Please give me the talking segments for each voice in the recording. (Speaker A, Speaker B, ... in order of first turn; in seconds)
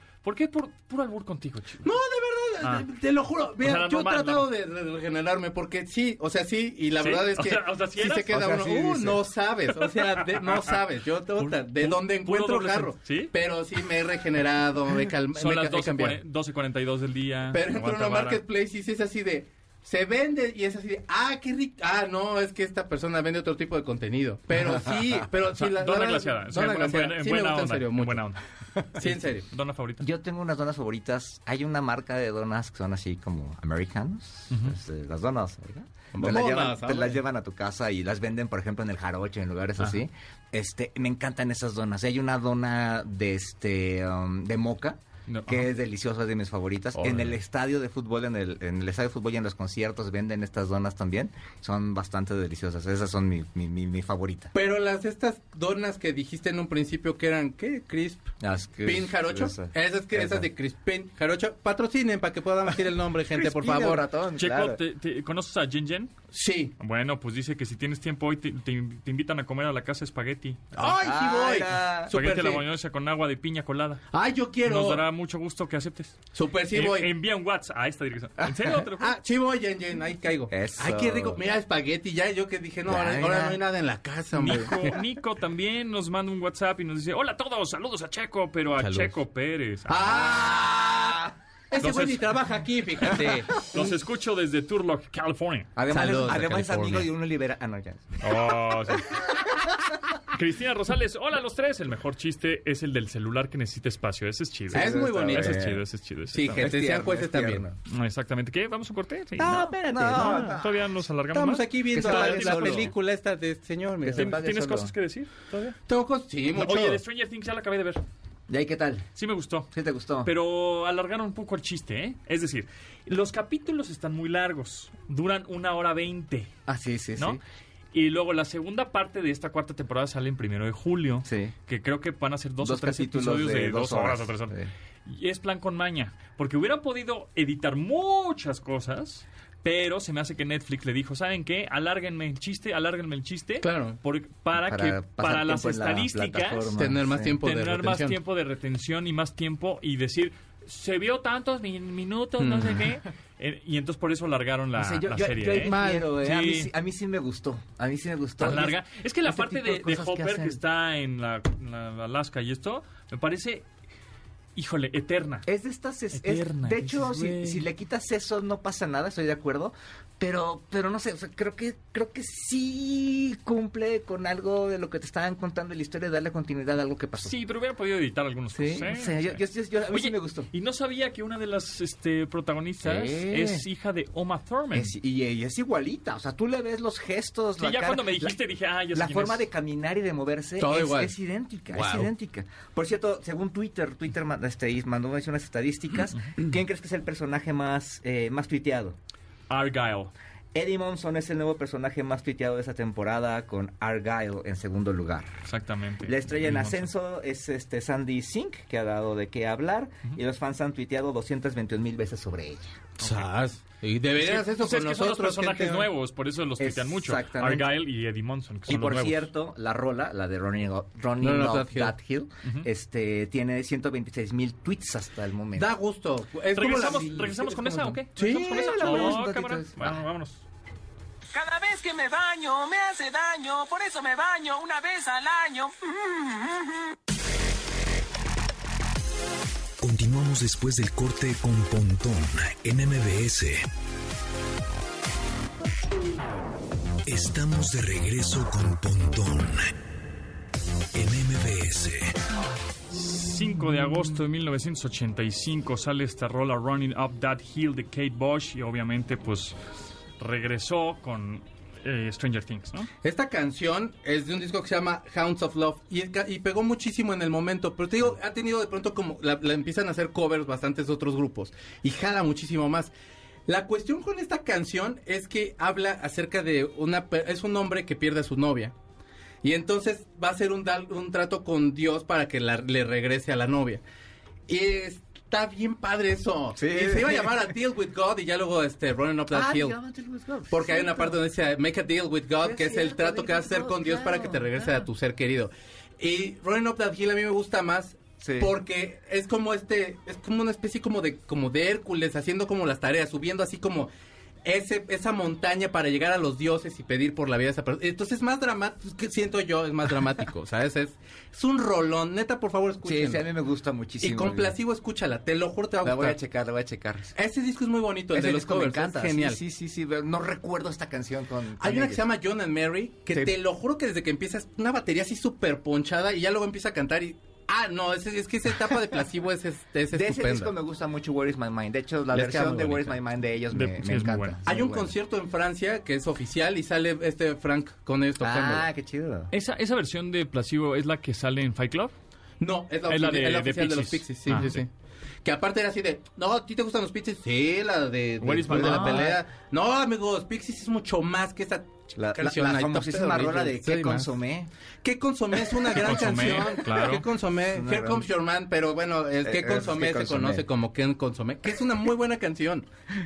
Speaker A: 0.2-1.9, 2.6-2.9, 3.6-4.5, 7.0-8.7, 9.8-10.8, 11.4-13.3, 15.3-18.4, 25.5-30.1, 34.5-34.8, 45.3-45.7, 46.9-47.4, 64.3-66.2, 66.8-70.8, 72.1-74.0, 74.6-79.2, 84.3-90.2, 91.8-92.2, 93.7-95.7, 98.2-99.2, 100.3-106.7, 107.9-112.9, 114.1-115.8, 116.5-118.0, 119.2-119.7, 120.2-126.5, 127.9-146.7, 147.4-156.7, 158.4-163.7, 164.6-165.4, 166.1-167.7, 177.2-184.9, 187.6-189.4, 199.5-200.1, 205.4-206.9, 213.0-213.3, 214.2-219.3, 226.5-230.4, 252.9-259.6, 260.2-262.9, 333.5-334.4, 339.3-341.9, 342.9-344.6, 348.2-349.1, 355.7-357.1
Speaker B: 1.8-16.2, 17.5-28.3, 28.9-29.4, 36.1-37.2, 54.5-58.3, 58.8-64.0, 66.3-66.7, 70.7-72.7, 74.1-75.0, 76.3-77.1, 79.0-85.0, 88.8-89.2, 89.9-93.7, 95.9-97.1, 104.7-105.7, 106.3-107.7, 109.4-110.6, 111.3-114.4, 115.9-117.0, 143.6-144.0, 146.7-148.2, 152.4-152.8, 155.6-156.1, 190.6-191.1, 191.7-192.1, 213.0-215.9, 221.2-221.9, 225.5-229.2, 263.0-272.9, 273.4-278.7, 279.4-283.8, 284.5-289.8, 290.5-303.9, 304.4-313.3, 314.0-316.2, 317.1-319.4, 321.6-330.5, 332.1-333.0, 334.4-338.7, 342.4-344.7, 345.2-354.1, 354.8-362.7
Speaker C: 8.3-9.1, 30.0-54.5, 58.4-60.5, 63.3-64.8, 70.8-72.1, 78.4-78.7, 80.5-81.4, 82.9-83.6, 90.0-91.3, 95.8-98.6, 104.7-105.8, 106.5-107.8, 109.5-110.8, 111.9-112.9, 114.0-114.9, 118.5-119.1, 119.7-120.3, 126.7-127.4, 131.2-131.5, 132.6-134.7, 144.5-147.3, 154.8-160.6, 165.4-177.3, 178.5-180.5, 182.8-183.7, 184.7-188.4, 188.9-198.9, 200.5-205.3, 206.0-212.8, 216.6-217.7, 218.7-225.7, 226.7-227.2, 228.2-230.0, 286.6-287.3, 289.3-291.2, 292.4-294.9, 298.2-298.5, 312.8-314.5, 315.8-317.1, 318.1-322.0, 329.9-334.9, 338.2-339.3, 348.5-349.2, 352.0-354.5, 357.5-358.1, 359.2-360.4
Speaker D: 231.3-235.7
Speaker E: 239.8-243.7, 247.1-249.7, 250.9-252.2